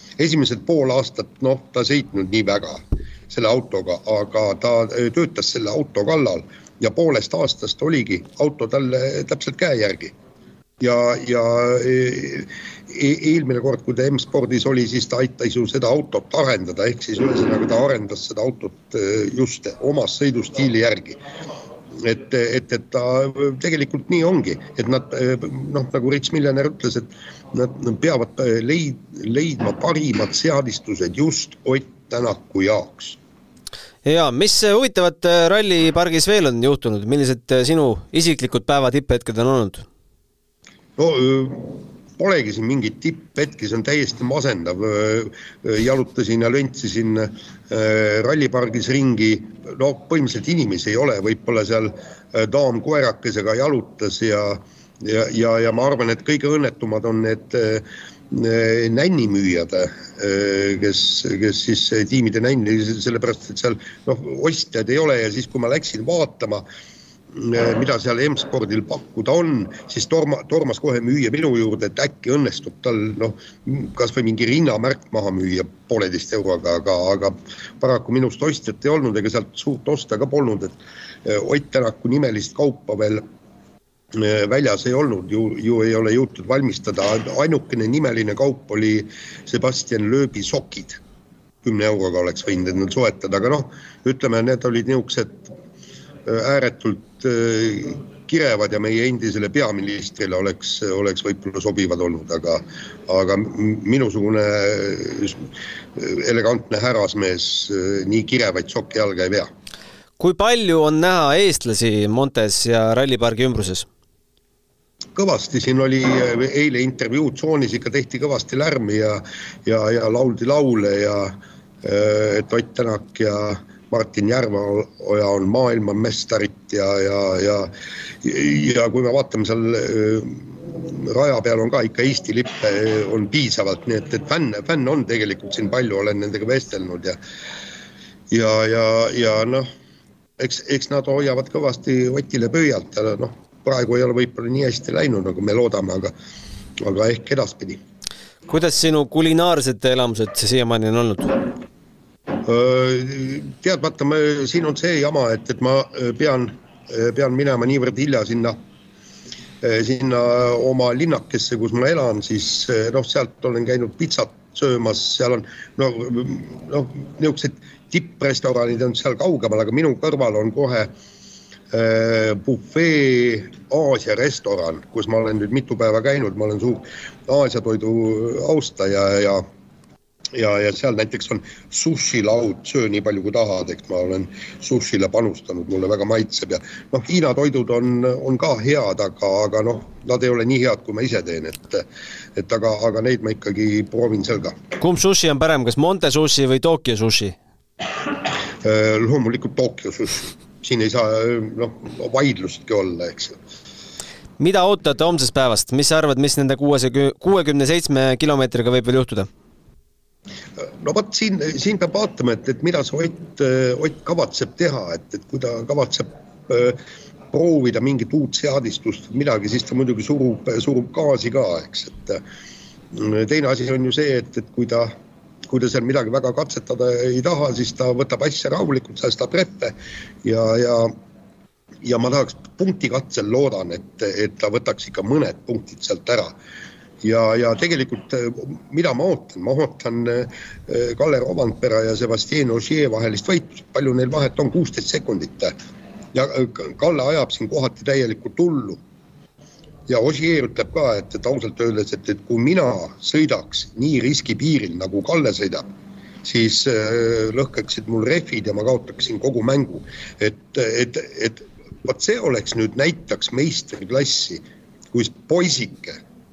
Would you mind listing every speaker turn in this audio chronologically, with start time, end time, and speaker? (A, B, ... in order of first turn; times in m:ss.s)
0:00.2-0:10.1 A
0:10.8-0:21.2 A
0:22.0-0:33.2 A
0:34.0-0:39.9 B
0:41.0-1:06.6 A
1:07.3-1:23.2 A
1:24.1-1:31.0 A
1:31.6-1:35.6 A
1:36.2-1:49.5 A
1:50.2-1:53.9 B
1:55.2-2:07.7 A
2:08.2-2:17.2 A
2:18.3-2:19.7 A
2:20.4-2:26.1 A
2:26.8-2:27.8 A
2:28.5-2:31.4 B
2:32.4-2:38.6 A
2:39.6-2:50.9 A
2:51.7-2:59.5 A
3:00.3-3:11.8 A
3:12.4-3:14.6 A
3:14.8-3:17.4 B
3:18.6-3:23.4 A
3:24.4-3:29.3 B
3:30.6-3:36.8 A
3:37.3-3:42.2 A
3:42.9-3:44.9 A
3:45.4-3:51.0 A
3:51.8-3:56.3 A
3:57.0-4:05.6 A
4:06.1-4:08.8 A
4:09.9-4:15.7 A
4:16.2-4:26.0 A